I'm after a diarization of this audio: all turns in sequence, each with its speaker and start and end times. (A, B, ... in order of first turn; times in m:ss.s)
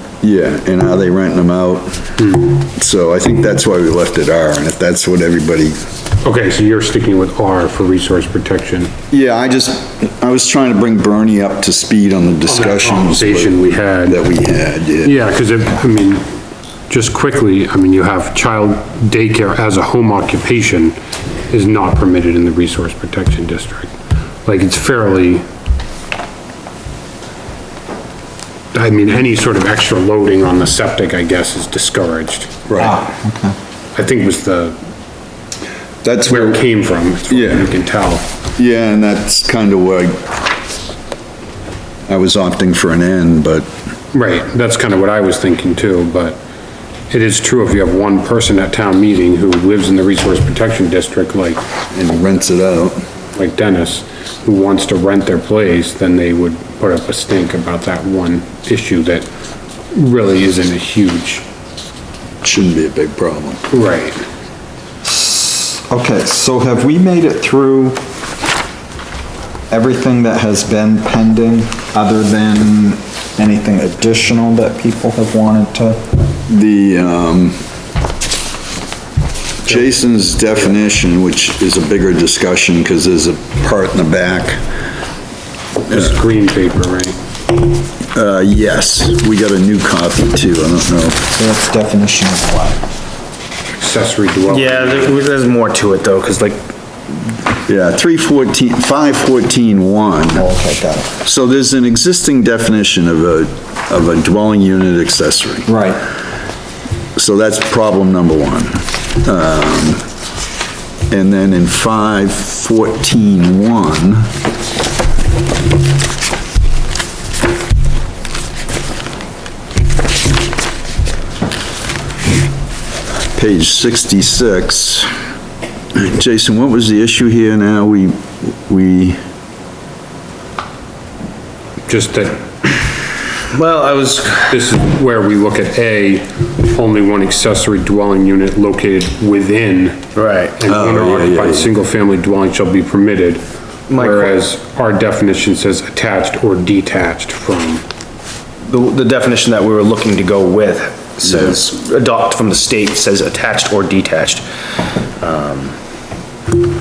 0:00.2-0:05.8 A
0:02.2-0:02.5 B
0:06.2-0:08.9 B
0:09.1-0:15.1 A
0:12.4-0:14.2 B
0:15.0-0:16.2 B
0:16.9-0:21.0 B
0:21.5-0:23.9 B
0:24.4-0:25.4 B
0:28.7-0:33.0 B
0:32.8-0:33.5 C
0:33.9-0:34.8 B
0:36.0-0:36.6 A
0:36.2-0:38.2 B
0:37.3-0:37.7 A
0:38.6-0:40.2 A
0:42.1-0:43.7 A
0:44.1-0:46.4 B
0:47.1-0:51.6 B
0:51.9-0:53.0 A
0:53.4-0:59.3 B
0:59.9-1:01.4 B
1:02.4-1:03.6 A
1:03.7-1:04.2 B
1:05.0-1:08.0 C
1:09.7-1:16.0 C
1:16.5-1:17.6 A
1:19.6-1:24.6 A
1:25.8-1:27.2 B
1:28.1-1:31.3 A
1:31.4-1:32.8 C
1:33.7-1:35.2 B
1:34.5-1:36.7 D
1:37.7-1:40.4 A
1:40.3-1:41.1 C
1:41.2-1:45.7 A
1:45.7-1:46.0 C
1:47.2-1:50.0 A
1:51.1-1:54.3 A
2:03.3-2:05.1 A
2:05.9-2:09.2 A
2:11.9-2:12.4 B
2:13.4-2:14.6 D
2:14.5-2:23.4 B
2:20.1-2:20.6 D
2:20.6-2:21.7 A
2:23.9-2:24.3 D
2:23.9-2:27.8 B
2:28.6-2:34.4 D
2:31.3-2:31.6 A
2:35.2-2:35.8 D